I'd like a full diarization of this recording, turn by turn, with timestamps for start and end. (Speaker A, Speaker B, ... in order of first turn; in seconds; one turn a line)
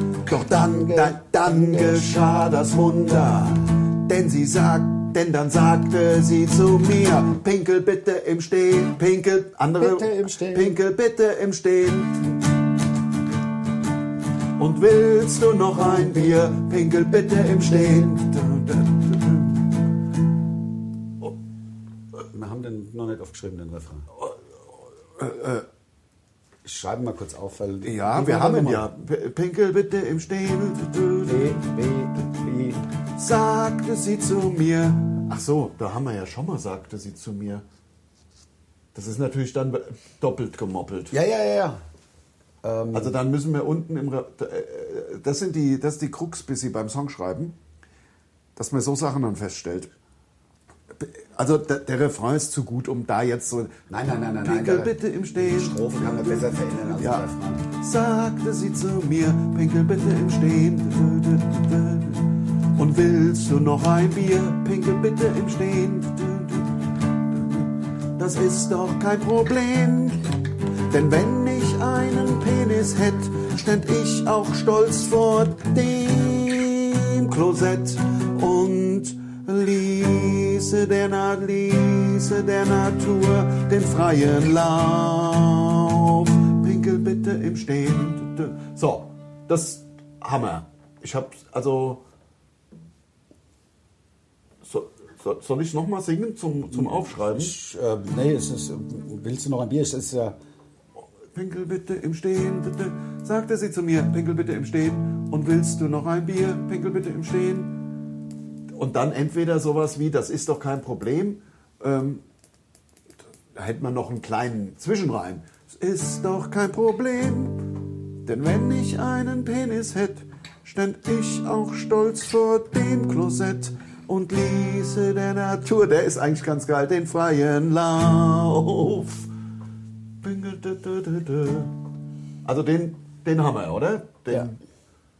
Speaker A: 0.3-12.4
Speaker B: 0.6-3.3
Speaker B: 9.8-10.8
Speaker A: 14.6-19.8
Speaker B: 22.3-24.1
Speaker A: 25.1-25.7
Speaker B: 26.6-28.9
Speaker A: 27.8-31.6
Speaker B: 31.3-32.8
Speaker A: 33.1-37.6
Speaker A: 38.9-41.1
Speaker B: 41.1-41.8
Speaker B: 42.6-43.1
Speaker A: 42.9-47.5
Speaker A: 48.5-49.9
Speaker A: 50.9-53.8
Speaker B: 53.9-57.7
Speaker A: 54.4-70.3
Speaker A: 70.9-92.0
Speaker A: 94.6-97.5
Speaker B: 96.7-100.3
Speaker A: 101.3-107.9
Speaker A: 108.8-112.2
Speaker A: 113.5-129.3
Speaker A: 130.2-131.8
Speaker A: 132.4-134.6